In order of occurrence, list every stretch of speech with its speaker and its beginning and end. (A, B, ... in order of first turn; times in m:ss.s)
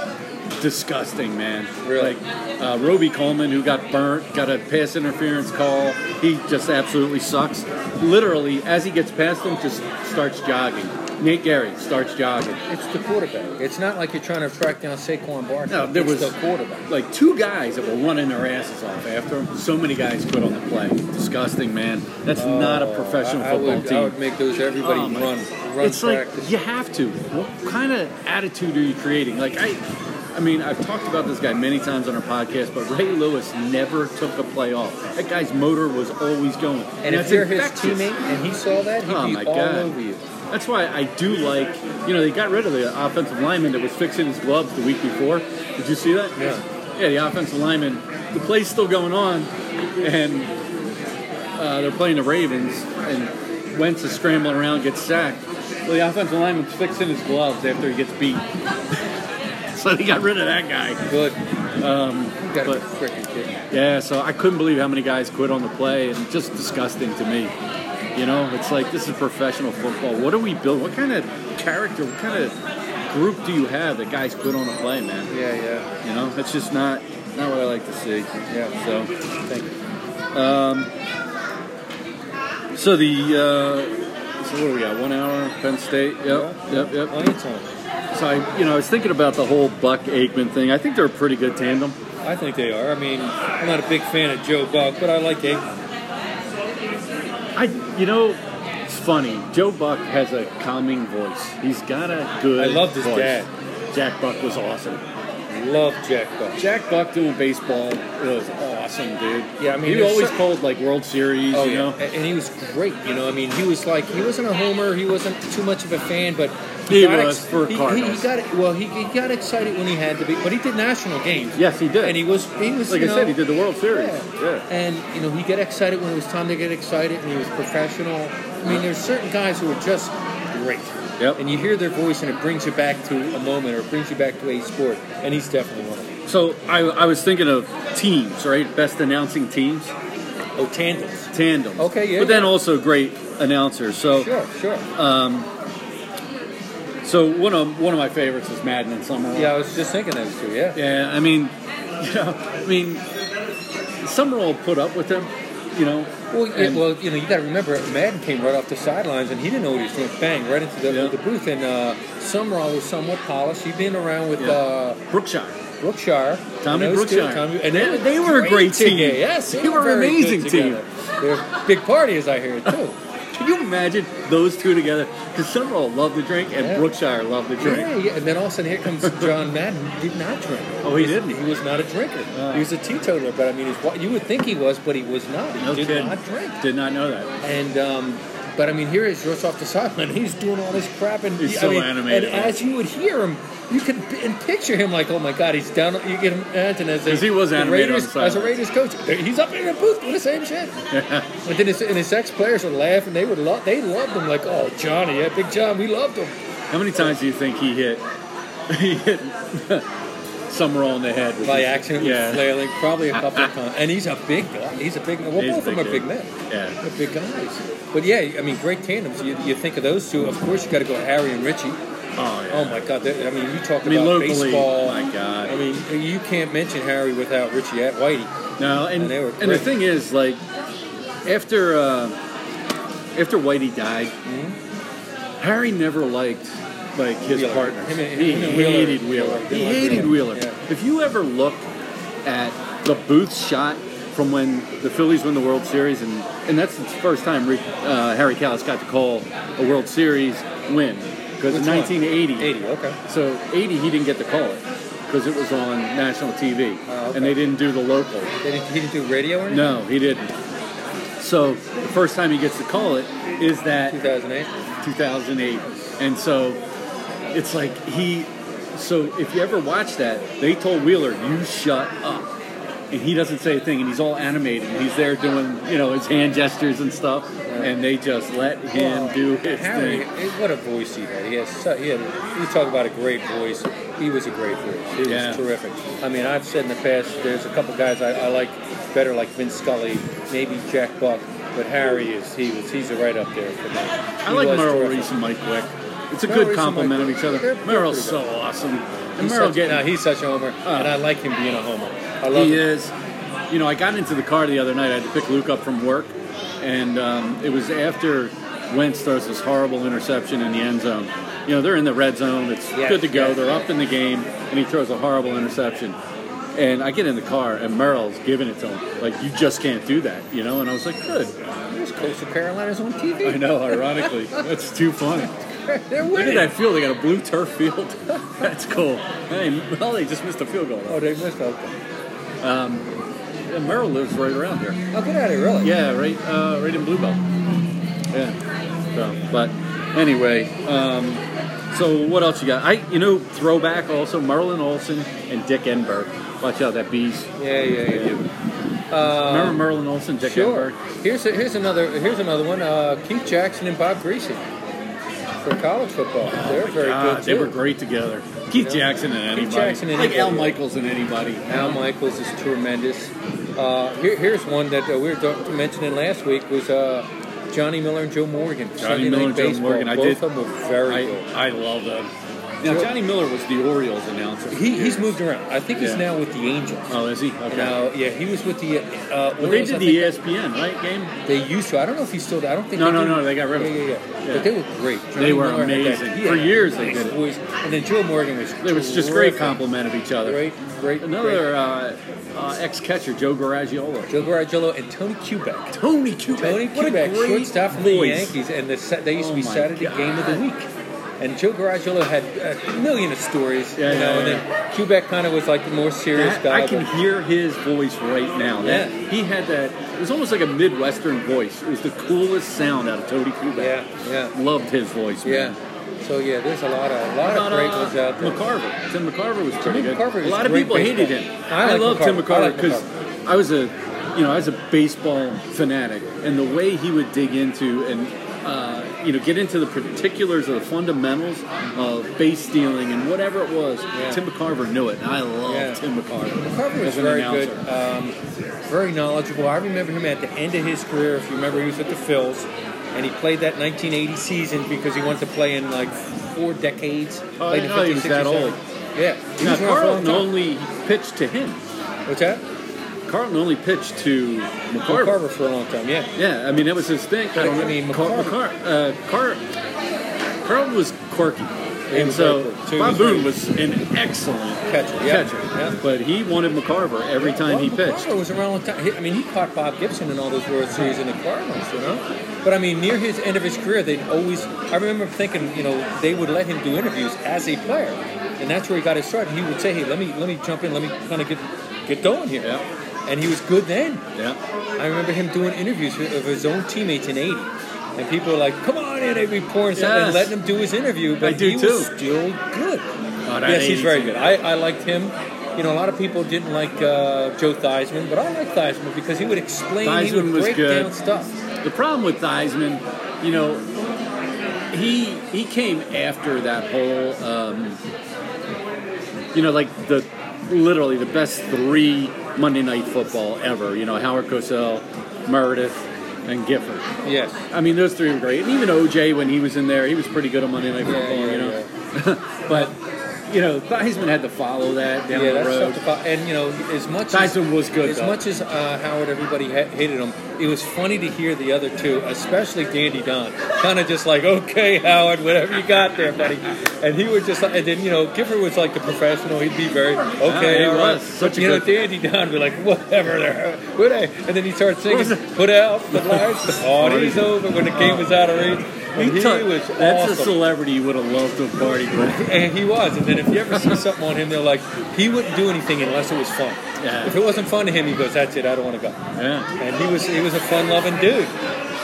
0:00.6-0:12.6 A
0:01.8-0:02.2 B
0:12.7-0:16.9 B
0:15.7-0:24.1 A
0:22.3-0:26.5 B
0:24.8-0:29.8 A
0:30.3-0:38.1 A
0:37.0-0:40.2 B
0:39.0-0:39.9 A
0:40.5-0:50.5 A
0:46.4-0:46.6 B
0:51.6-0:58.4 A
0:59.7-1:01.0 A
1:01.1-1:01.4 B
1:01.8-1:02.8 A
1:02.4-1:03.7 B
1:03.7-1:07.5 A
1:08.2-1:12.5 A
1:13.1-1:15.3 A
1:15.3-1:15.9 B
1:16.0-1:19.1 A
1:18.5-1:18.8 B
1:19.5-1:19.7 B
1:20.3-1:20.9 A
1:22.7-1:27.2 A
1:26.2-1:27.7 B
1:28.1-1:32.0 A
1:32.2-1:35.7 B
1:37.5-1:45.0 A
1:42.6-1:43.5 B
1:45.5-1:46.6 B
1:46.6-1:52.0 A
1:49.6-1:50.4 B
1:51.5-2:16.2 B
1:56.9-1:58.3 A
2:01.6-2:02.2 A
2:02.9-2:04.6 A
2:11.2-2:11.4 A
2:16.3-2:19.9 A
2:20.6-2:22.6 B
2:21.3-2:24.3 A
2:24.1-2:24.9 B
2:24.9-2:25.5 A
2:27.0-2:29.5 A
2:29.3-2:30.8 B
2:30.7-2:33.0 A
2:34.0-2:36.8 A
2:36.3-2:45.0 B
2:40.9-2:41.1 A
2:44.4-2:45.6 A
2:45.8-2:53.0 B
2:46.6-2:50.8 A
2:53.3-2:57.9 A
2:56.6-2:56.8 B
2:57.6-3:06.6 B
2:59.0-2:59.3 A
3:00.8-3:01.4 A
3:02.3-3:02.7 A
3:05.6-3:07.3 A
3:07.4-3:20.8 B
3:11.4-3:12.6 A
3:17.0-3:18.6 A
3:20.9-3:21.3 A
3:21.4-3:26.4 B
3:26.7-3:28.0 A
3:28.7-3:29.9 A
3:30.5-3:32.6 A
3:31.4-3:41.8 B
3:33.1-3:33.5 A
3:35.4-3:36.8 A
3:42.2-3:42.8 A
3:42.5-3:48.4 B
3:43.8-3:45.6 A
3:48.6-3:50.4 A
3:48.9-3:49.7 B
3:51.2-3:52.2 A
3:53.1-3:54.1 A
3:54.2-3:54.6 B
3:55.4-4:01.7 A
3:57.2-4:00.6 B
4:02.2-4:12.5 A
4:11.5-4:13.0 B
4:13.0-4:18.3 A
4:16.9-4:17.4 B
4:18.4-4:19.8 B
4:19.5-4:20.3 A
4:21.2-4:24.0 A
4:23.9-4:24.5 B
4:24.8-4:26.6 A
4:27.3-4:32.3 A
4:32.9-4:40.1 A
4:37.5-4:37.7 B
4:38.7-4:55.1 B
4:45.0-4:45.4 A
4:54.2-4:59.9 A
4:56.2-4:58.2 B
4:59.2-5:02.6 B
5:00.6-5:00.9 A
5:02.3-5:02.9 A
5:03.5-5:16.0 A
5:12.7-5:13.7 B
5:16.5-5:21.3 A
5:21.7-5:24.5 B
5:23.2-5:25.4 A
5:25.6-5:26.5 B
5:26.1-5:31.1 A
5:30.9-5:31.7 B
5:32.4-5:32.9 A
5:33.5-5:34.8 A
5:34.9-5:35.7 B
5:35.6-5:37.2 A
5:38.1-5:38.4 A
5:38.9-5:47.3 A
5:47.4-5:48.3 B
5:47.8-5:48.2 A
5:48.9-5:49.6 B
5:49.1-5:50.8 A
5:50.2-5:54.4 B
5:55.4-5:57.6 B
5:56.2-6:01.8 A
5:58.6-6:00.6 B
6:01.5-6:11.3 B
6:08.8-6:10.2 A
6:10.8-6:15.1 A
6:12.6-6:12.9 B
6:14.5-6:20.2 B
6:15.8-6:16.0 A
6:16.9-6:17.8 A
6:19.4-6:21.1 A
6:21.2-6:29.6 B
6:22.8-6:24.5 A
6:25.2-6:27.2 A
6:28.6-6:30.4 A
6:30.2-6:31.5 B
6:31.0-6:34.1 A
6:34.1-6:35.8 B
6:35.7-6:38.3 A
6:36.3-6:46.9 B
6:39.2-6:40.4 A
6:43.8-6:44.5 A
6:46.1-6:53.8 A
6:48.6-6:48.9 B
6:53.5-6:54.3 B
6:54.3-6:55.6 A
6:55.2-6:58.4 B
6:57.2-7:17.6 A
6:59.6-7:02.9 B
7:13.9-7:14.2 B
7:15.4-7:15.8 B
7:16.4-7:30.3 B
7:27.4-7:28.6 A
7:29.4-7:31.6 A
7:32.0-7:32.4 B
7:33.1-7:35.2 A
7:34.8-7:36.1 B
7:36.2-7:39.4 A
7:37.3-7:38.4 B
7:40.4-7:48.1 A
7:41.9-7:43.3 B
7:44.6-7:45.8 B
7:47.2-8:02.5 B
8:03.0-8:04.0 B
8:04.8-8:12.9 B
8:09.7-8:10.4 A
8:11.2-8:11.9 A
8:13.2-8:14.3 A
8:13.4-8:21.3 B
8:19.8-8:20.9 A
8:21.6-8:23.6 A
8:24.7-8:27.8 A
8:29.3-8:36.9 A
8:37.0-8:37.4 B
8:37.5-8:45.8 A
8:40.8-8:41.7 B
8:45.1-9:10.4 B
8:47.1-8:48.2 A
9:00.2-9:01.9 A
9:04.9-9:05.3 A
9:05.9-9:12.4 A
9:12.0-9:19.0 B
9:13.5-9:13.8 A
9:16.8-9:17.2 A
9:19.2-9:19.5 A
9:19.6-9:21.4 B